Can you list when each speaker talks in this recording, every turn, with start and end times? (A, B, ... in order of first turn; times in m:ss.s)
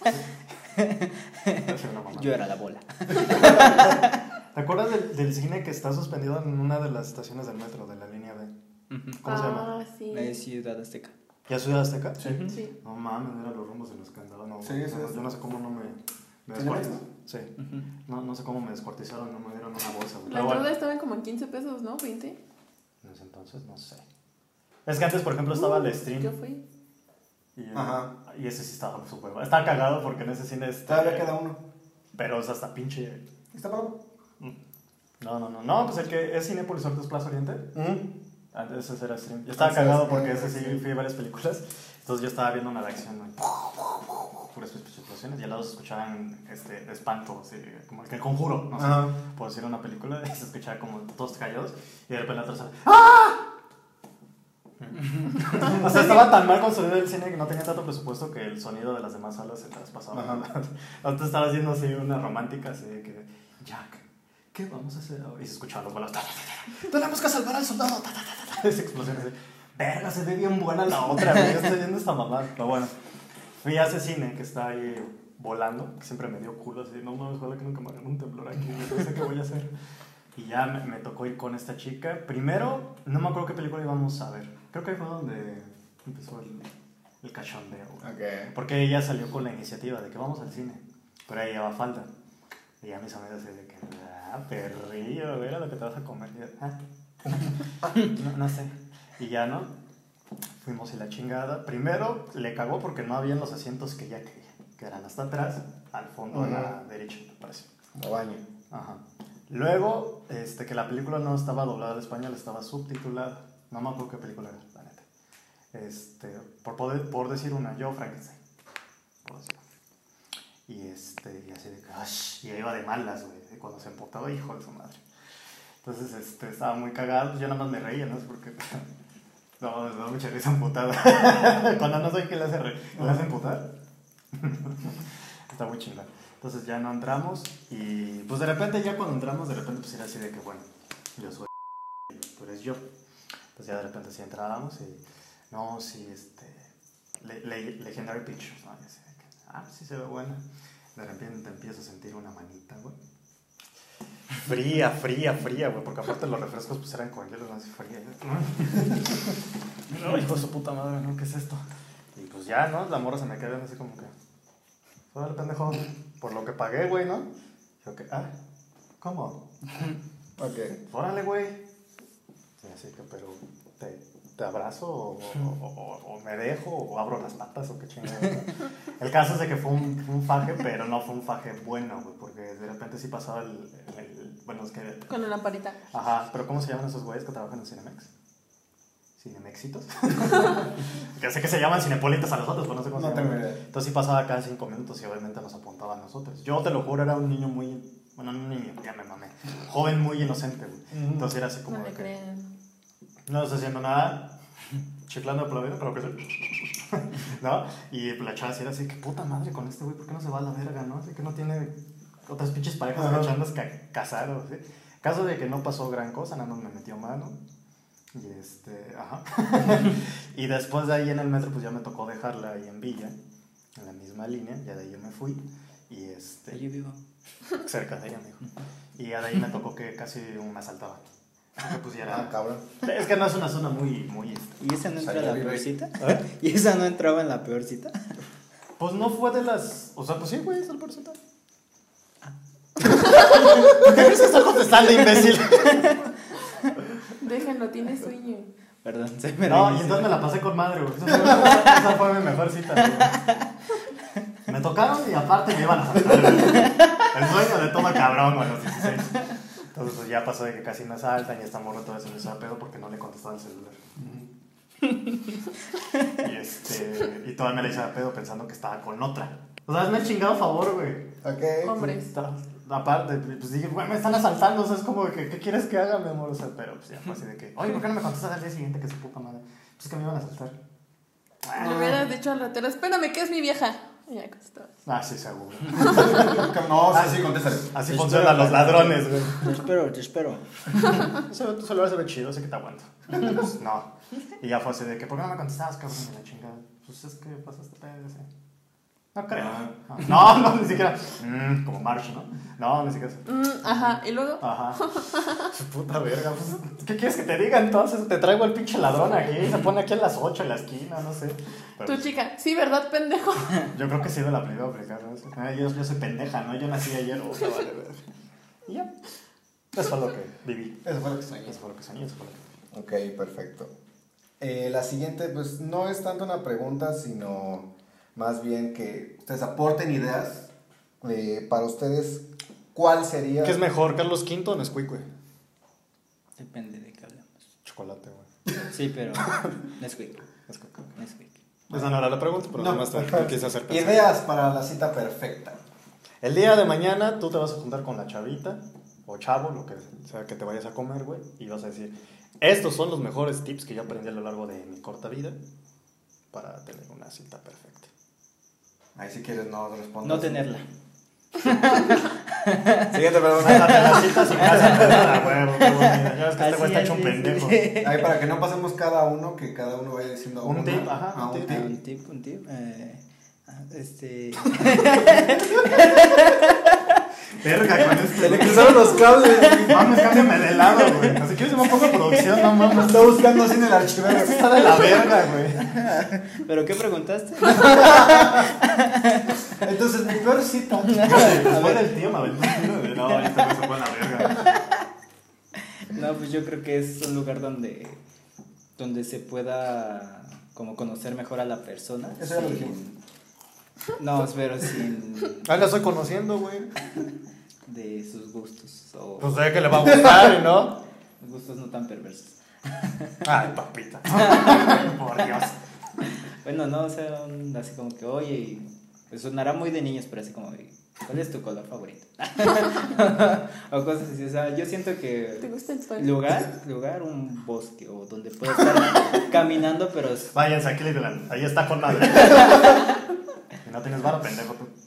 0:00.8-0:01.6 A
0:01.6-0:02.4 B
0:02.2-0:04.1 A
0:04.5-0:08.5 B
0:08.9-0:09.4 A
0:09.1-0:09.7 B
0:09.2-0:10.3 C
0:10.1-0:11.1 A
0:11.5-0:17.5 B
0:12.2-0:12.6 A
0:14.6-0:15.2 D
0:16.5-0:17.0 D
0:17.6-0:17.8 A
0:18.0-0:20.7 B
0:20.3-0:22.4 C
0:23.0-0:24.0 B
0:24.8-0:26.3 B
0:25.5-0:26.6 C
0:27.6-0:31.3 B
0:27.7-0:28.1 D
0:30.9-0:31.6 D
0:32.2-0:33.2 B
0:33.5-0:34.0 D
0:35.2-0:37.8 B
0:37.7-0:38.1 D
0:38.5-0:53.5 B
0:39.5-0:40.8 D
0:48.8-0:49.2 D
0:54.8-1:12.9 B
1:00.1-1:00.4 D
1:13.6-1:19.7 B
1:20.3-1:26.7 B
1:27.2-1:32.1 B
1:28.0-1:28.5 D
1:32.8-1:36.8 B
1:37.4-1:39.7 B
1:40.6-1:47.7 B
1:46.3-1:46.7 D
1:47.9-1:48.4 D
1:48.7-1:55.0 B
1:55.7-1:58.4 B
1:59.2-1:59.6 B
2:00.7-2:05.0 B
2:05.8-2:08.8 B
2:09.6-2:13.7 B
2:14.3-2:21.5 B
2:22.1-2:22.8 B
2:23.6-2:30.4 B
2:30.9-2:33.0 B
2:34.4-2:39.4 B
2:39.9-2:41.6 B
2:42.1-2:44.1 B
2:45.1-2:47.3 B
2:47.8-2:48.3 B
2:49.0-2:49.4 B
2:50.4-2:50.8 D
2:50.9-2:51.6 B
2:52.6-3:05.1 B
3:05.1-3:05.8 C
3:05.9-3:08.1 B
3:09.2-3:22.1 B
3:12.9-3:13.6 D
3:20.9-3:21.3 D
3:21.7-3:22.5 C
3:23.3-3:24.3 B
3:25.1-3:37.4 B
3:33.0-3:33.3 D
3:38.1-3:43.2 B
3:43.7-3:46.6 B
3:46.5-3:47.0 A
3:47.6-3:48.4 B
3:49.0-3:51.0 B
3:51.6-3:52.3 B
3:52.0-3:52.6 D
3:52.8-3:54.6 B
3:54.6-3:58.1 A
3:55.0-3:55.7 D
3:58.8-4:01.2 B
4:02.9-4:06.1 B
4:07.2-4:08.5 C
4:08.8-4:10.2 A
4:09.5-4:13.2 B
4:14.5-4:23.8 B
4:24.0-4:24.2 D
4:26.1-4:31.1 B
4:31.2-4:31.9 D
4:31.6-4:32.1 C
4:32.0-4:40.6 B
4:41.4-4:42.0 B
4:41.6-4:44.7 C
4:44.8-4:49.5 B
4:45.8-4:48.9 D
4:47.9-4:50.4 A
4:51.0-4:58.3 B
4:59.1-5:12.1 B
5:03.2-5:05.5 C
5:11.8-5:13.7 C
5:13.7-5:18.0 B
5:18.7-5:18.9 B
5:19.7-5:20.8 B
5:20.8-5:21.6 D
5:21.4-5:22.4 B
5:22.7-5:23.7 D
5:24.4-5:30.5 D
5:31.0-5:33.6 D
5:33.4-5:35.1 B
5:36.4-5:37.3 A
5:37.6-5:38.3 B
5:38.7-5:40.2 A
5:40.5-5:40.9 B
5:41.0-5:41.4 A
5:41.7-5:44.1 B
5:42.5-5:45.6 D
5:46.2-5:55.4 B
5:56.3-5:57.9 B
5:58.9-6:00.4 D
6:00.0-6:00.6 A
6:01.4-6:08.1 A
6:02.9-6:04.7 D
6:03.3-6:07.7 B
6:07.8-6:11.7 D
6:10.4-6:11.6 B
6:11.4-6:16.8 A
6:17.4-6:23.3 B
6:18.1-6:20.1 D
6:19.2-6:19.7 A
6:22.7-6:24.5 D
6:24.1-6:25.8 B
6:25.6-6:29.4 A
6:29.6-6:31.7 D
6:30.9-6:32.0 A
6:31.0-6:34.5 B
6:34.3-6:34.7 A
6:35.6-6:38.0 A
6:38.8-6:43.0 A
6:42.2-6:42.8 D
6:44.0-6:45.6 A
6:45.4-6:46.7 B
6:47.6-6:49.3 A
6:49.2-6:50.8 B
6:51.2-6:53.2 A
6:53.2-6:55.6 B
6:54.2-6:54.9 A
6:56.4-7:10.3 A
7:05.4-7:06.2 C
7:10.3-7:12.8 B
7:13.6-7:14.7 B